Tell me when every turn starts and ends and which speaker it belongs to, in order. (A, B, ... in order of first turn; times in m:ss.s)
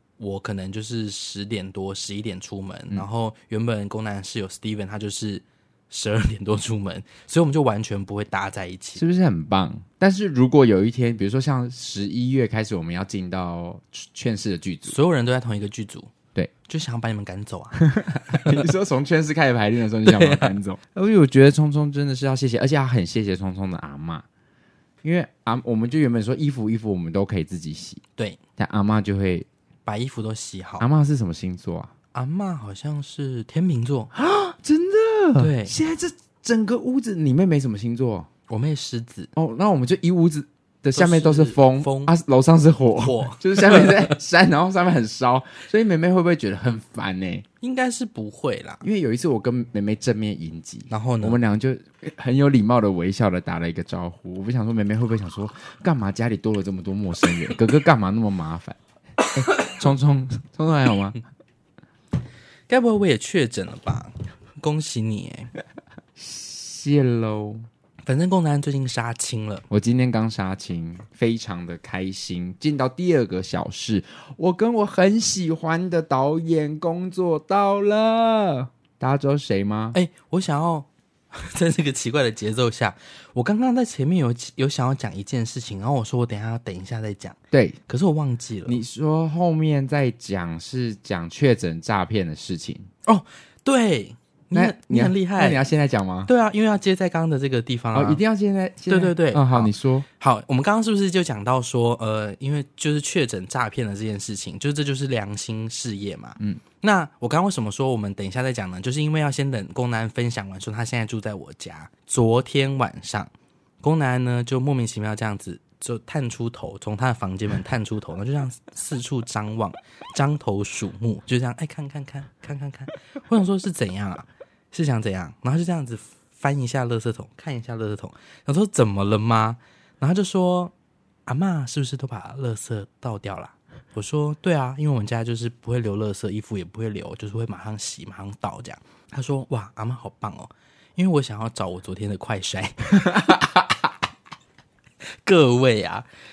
0:00.2-0:09.0 A
0:09.0-0:15.0 B
0:14.8-0:16.1 A
0:16.7-0:18.6 A
0:17.9-0:24.2 B
0:20.0-0:20.6 A
0:25.0-0:28.0 B
0:28.6-0:29.5 B
0:29.9-0:30.9 A
0:30.8-0:31.9 B
0:32.1-0:34.1 A
0:34.1-0:38.3 B
0:35.4-0:35.8 A
0:38.5-0:39.3 A
0:39.4-0:47.4 B
0:41.0-0:42.1 A
0:43.0-0:44.1 A
0:47.6-0:48.8 A
0:48.8-0:58.8 B
0:50.9-0:51.4 A
0:59.3-1:01.2 B
1:02.7-1:05.5 A
1:06.2-1:07.7 B
1:08.0-1:09.6 A
1:09.7-1:20.0 B
1:19.9-1:27.4 A
1:27.5-1:27.8 B
1:27.9-1:28.8 A
1:28.7-1:32.9 B
1:33.1-1:35.6 A
1:34.5-1:36.3 B
1:36.3-1:38.2 A
1:37.9-1:40.1 B
1:38.9-1:53.3 A
1:53.8-2:10.7 A
2:11.3-2:23.4 A
2:25.2-2:26.1 A